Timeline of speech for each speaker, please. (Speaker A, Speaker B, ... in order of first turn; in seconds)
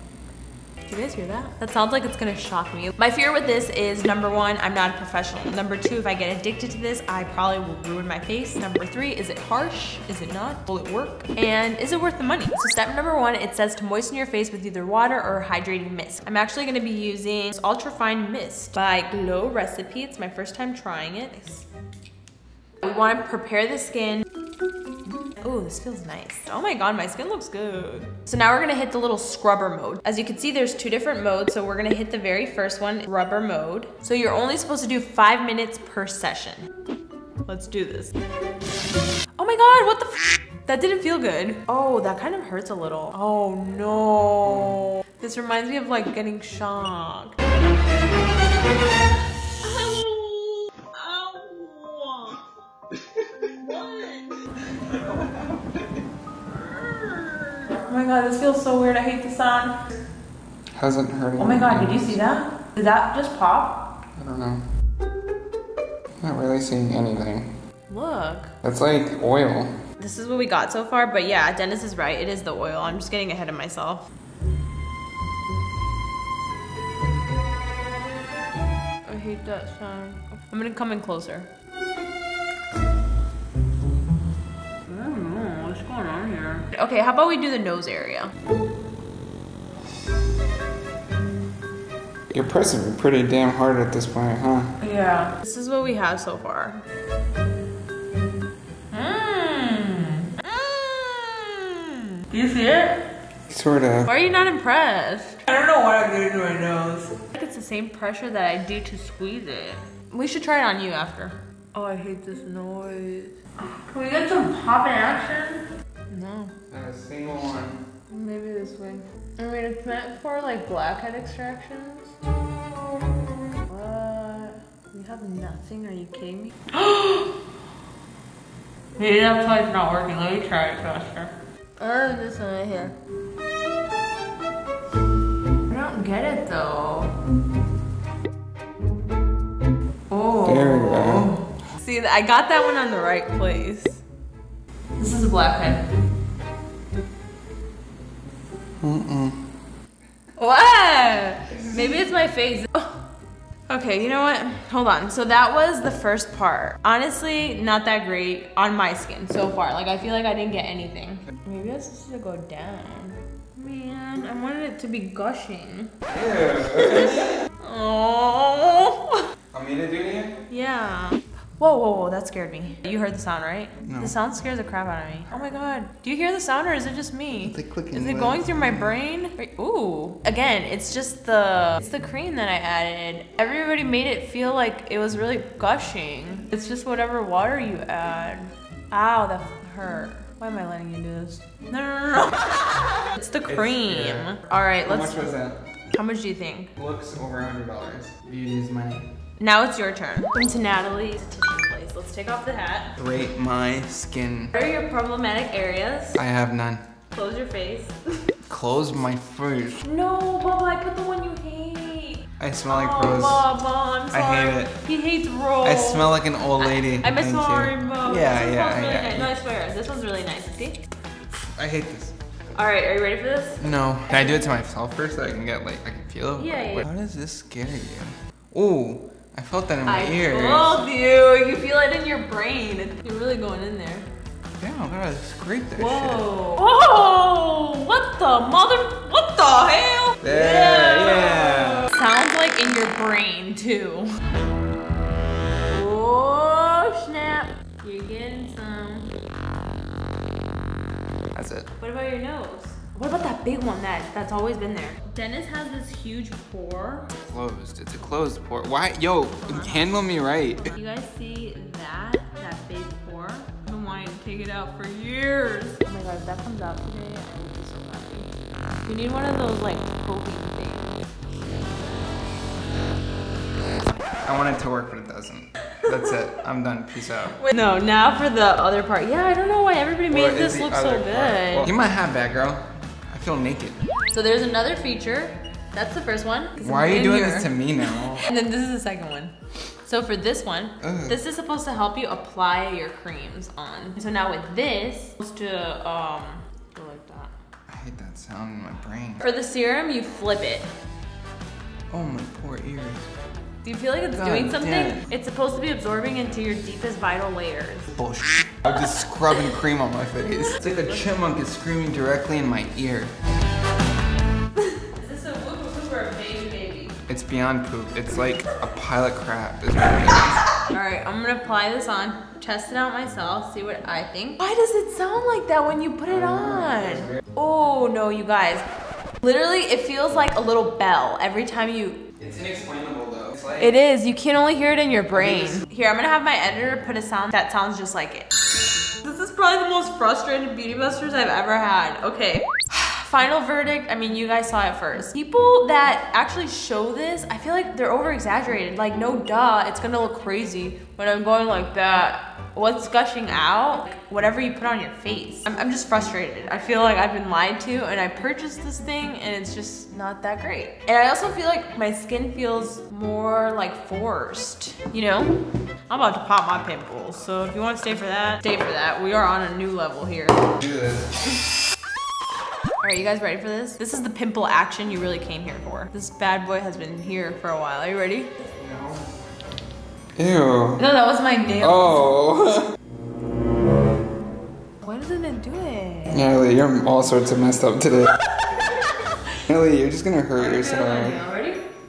Speaker A: 0.9-21.7, 22.8-24.3, 25.3-36.7, 37.5-38.1, 39.4-47.4, 49.6-52.5, 53.4-55.3, 56.6-59.8, 61.4-63.8, 67.9-68.5, 70.0-74.1, 79.1-81.5, 84.9-88.3, 94.8-96.8, 98.9-103.0, 104.1-116.5, 118.1-122.2, 123.6-127.4, 129.0-132.9, 135.7-137.2, 140.1-144.0, 145.0-145.8, 150.4-153.1, 153.7-165.9, 166.7-169.2, 170.5-195.3, 195.9-196.7, 199.4-203.0, 204.6-206.2, 207.1-208.2, 209.8-220.8, 222.6-224.6, 226.4-226.9, 229.9-234.1, 235.8-244.2, 245.7-249.1, 251.8-257.1, 259.4-260.0, 260.6-268.3, 268.9-271.0, 277.4-281.7, 284.1-289.3, 289.9-297.3, 299.2-300.7, 303.6-307.9, 310.2-311.1, 314.6-317.0, 320.6-328.6, 329.2-332.0, 333.6-338.3, 339.0-365.4, 365.9-370.5, 372.8-378.3, 380.8-382.0, 384.8-386.3, 388.3-389.4, 390.4-391.6
Speaker B: 60.8-62.2, 64.2-64.6, 66.2-67.5, 68.6-69.7, 92.3-94.8, 103.5-104.1, 116.7-117.8, 140.4-141.3, 148.8-149.5, 166.1-167.4, 169.5-170.4, 173.8-174.1, 177.4-179.0, 193.5-195.6, 196.8-199.1, 203.0-204.6, 206.2-206.9, 208.5-209.8, 212.4-213.5, 214.1-214.7, 215.6-219.3, 221.3-222.2, 223.6-230.9, 234.6-236.3, 240.2-241.9, 251.3-251.7, 257.1-260.8, 274.2-277.4, 280.1-283.8, 286.6-288.3, 290.8-291.2, 297.7-299.2, 301.9-303.1, 304.1-305.1, 307.9-313.1, 317.1-320.4, 332.2-333.7, 335.2-335.6, 370.6-371.2, 378.6-379.1, 380.2-380.8, 381.6-382.7, 386.1-388.2, 389.5-391.2